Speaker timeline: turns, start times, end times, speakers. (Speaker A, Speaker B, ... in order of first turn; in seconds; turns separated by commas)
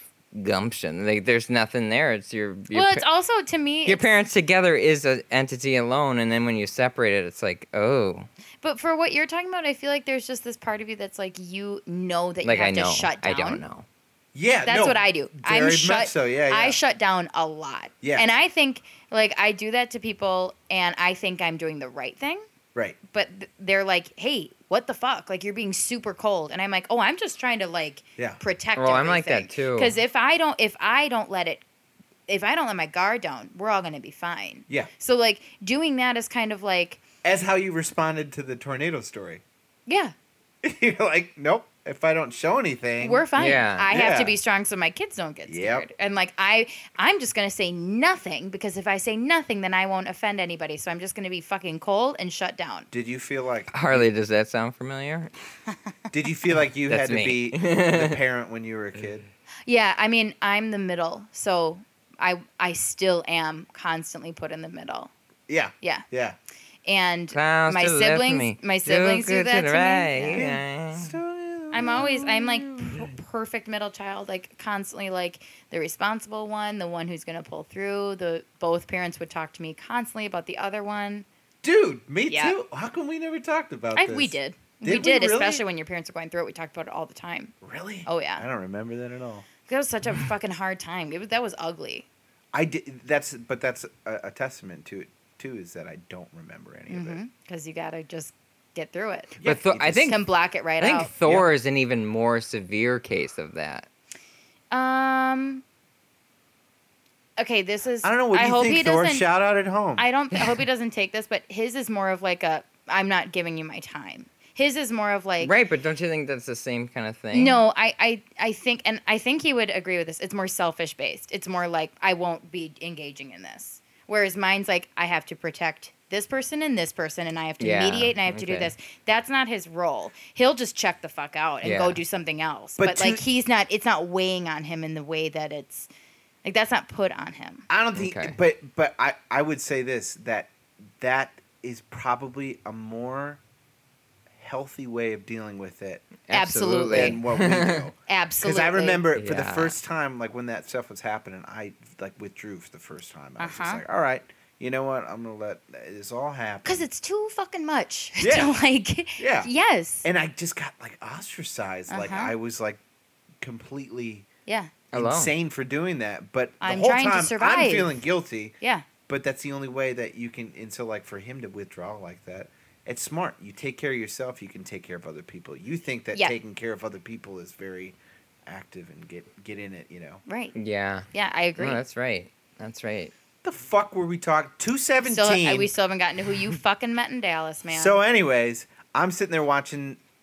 Speaker A: 0.3-3.0, Speaker B: 2.7-4.1, Speaker A: 3.8-8.3, Speaker B: 8.6-13.6, Speaker A: 12.4-13.8, Speaker C: 14.3-16.8, Speaker B: 14.6-22.4, Speaker B: 23.1-31.6, Speaker A: 28.8-30.0, Speaker B: 32.3-37.0, Speaker C: 37.2-39.4, Speaker B: 39.9-40.1, Speaker C: 40.6-44.4, Speaker B: 43.0-52.9, Speaker A: 43.4-43.9, Speaker C: 45.5-45.9, Speaker C: 52.9-54.1, Speaker A: 53.7-55.3, Speaker C: 56.1-59.2, Speaker A: 56.9-58.2, Speaker B: 59.6-65.1, Speaker C: 65.5-66.4, Speaker B: 66.8-70.5, Speaker A: 67.3-71.1, Speaker C: 70.3-73.1, Speaker B: 71.7-81.2, Speaker C: 81.6-85.6, Speaker B: 82.3-82.5, Speaker B: 83.9-87.5, Speaker C: 87.6-89.5, Speaker B: 88.0-88.4, Speaker B: 89.7-92.0, Speaker C: 92.5-97.2, Speaker B: 96.9-99.4, Speaker C: 99.4-100.2, Speaker A: 99.4-100.2, Speaker B: 100.1-101.1, Speaker A: 100.8-103.9, Speaker B: 104.7-105.6, Speaker B: 107.4-109.2, Speaker C: 108.0-110.0, Speaker B: 110.0-115.5, Speaker A: 115.4-117.6, Speaker B: 117.3-135.9, Speaker A: 127.6-128.7, Speaker A: 131.6-132.0, Speaker C: 132.8-133.2, Speaker B: 136.4-137.7, Speaker C: 137.7-143.4, Speaker A: 137.9-138.3, Speaker C: 144.3-146.1, Speaker A: 146.3-147.9, Speaker B: 146.3-147.2, Speaker C: 146.9-156.8, Speaker B: 148.1-149.0, Speaker A: 149.1-149.8, Speaker B: 153.4-153.8, Speaker B: 156.6-160.1, Speaker C: 158.2-158.5, Speaker C: 159.2-159.5, Speaker C: 160.0-162.8, Speaker B: 161.9-162.3, Speaker C: 163.4-164.2, Speaker B: 164.5-164.7, Speaker A: 164.9-165.3, Speaker C: 164.9-168.6, Speaker B: 166.6-167.9, Speaker B: 168.6-168.8, Speaker C: 169.1-180.2, Speaker B: 180.3-180.5, Speaker A: 180.5-183.1, Speaker B: 181.1-181.8, Speaker C: 183.4-185.7, Speaker B: 185.0-188.0, Speaker C: 187.7-190.0